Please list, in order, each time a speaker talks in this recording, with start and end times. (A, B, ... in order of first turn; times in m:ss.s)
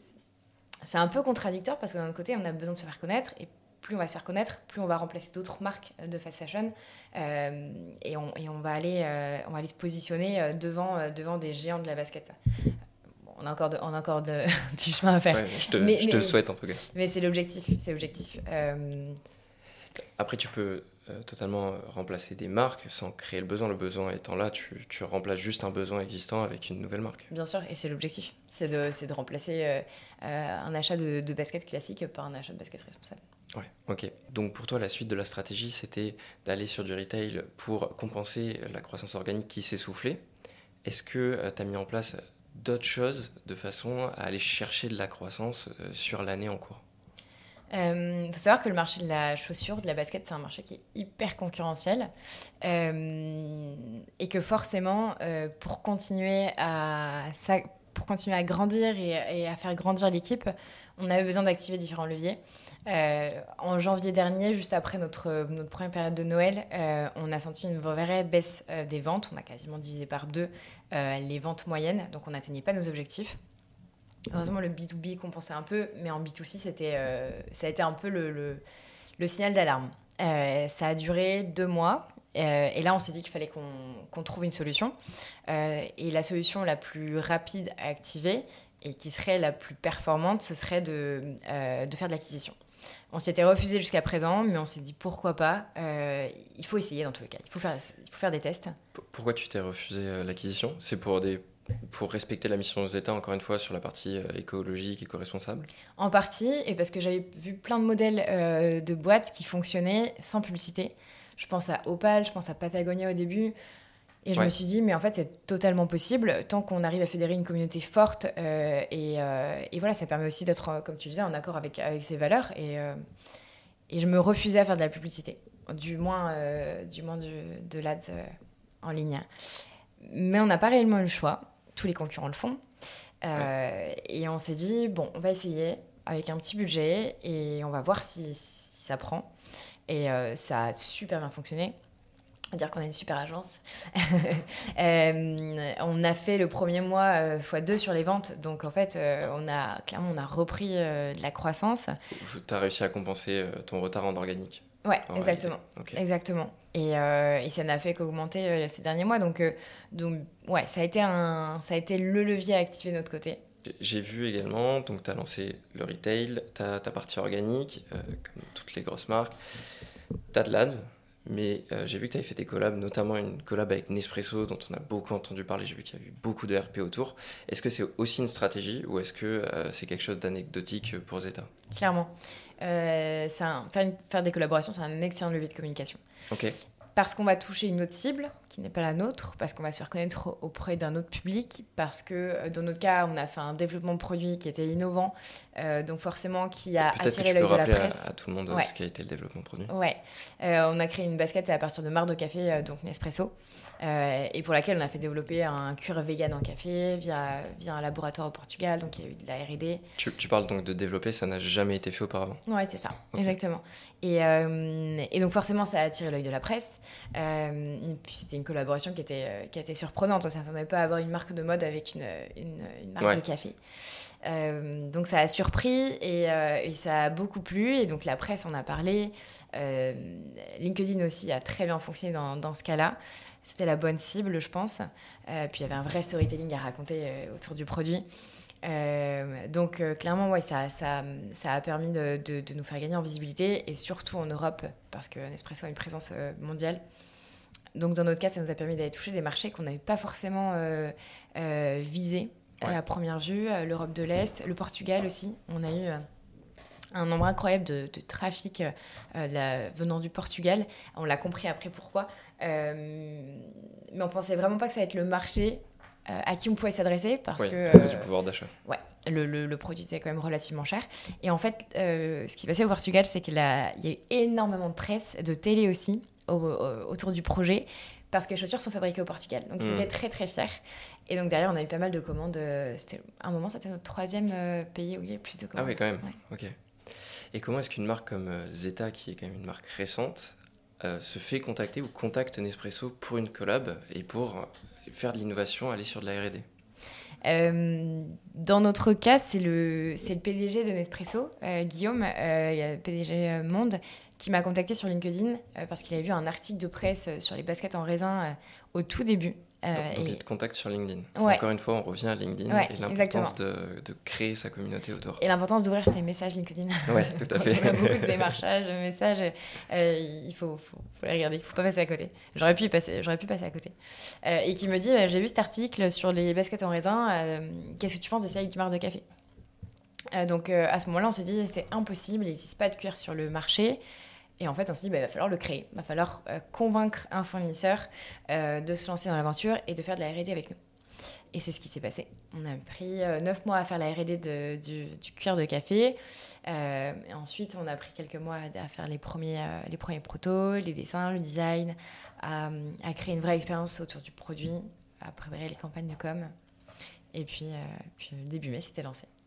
0:00.8-0:19.2 A
0:15.3-0:16.8 B
0:20.2-0:27.3 B
0:27.3-0:33.2 A
0:33.5-0:40.2 B
0:40.8-0:46.8 B
0:47.7-0:52.1 A
0:52.6-1:13.4 A
1:14.3-1:18.6 A
1:19.2-1:25.0 A
1:25.5-1:32.6 A
1:33.1-1:38.8 A
1:39.0-1:45.7 B
1:46.0-1:53.5 A
1:54.2-2:03.0 A
2:03.9-2:09.3 A
2:10.0-2:12.6 A
2:13.2-2:19.3 A
2:19.9-2:21.8 A
2:22.5-2:32.0 A
2:32.1-2:36.0 B
2:34.8-2:43.4 A
2:43.6-2:49.4 B
2:50.3-3:01.5 B
3:01.7-3:06.0 A
3:06.3-3:06.6 B
3:07.0-3:18.7 A
3:16.9-3:19.7 B
3:19.7-3:29.8 A
3:30.0-3:32.4 B
3:32.4-3:43.6 A
3:44.2-3:58.0 A
3:58.6-4:06.8 A
4:07.8-4:16.0 A
4:16.9-4:28.1 A
4:27.4-4:28.5 B
4:28.6-4:46.1 A
4:39.6-4:39.9 B
4:45.6-4:56.5 B
4:57.2-5:10.2 A
5:09.7-5:15.2 B
5:11.2-5:11.4 A
5:12.5-5:13.4 A
5:15.2-5:29.0 A
5:16.9-5:18.3 B
5:30.1-5:33.8 A
5:34.4-5:40.6 A
5:41.3-5:56.3 A
5:57.1-5:59.1 A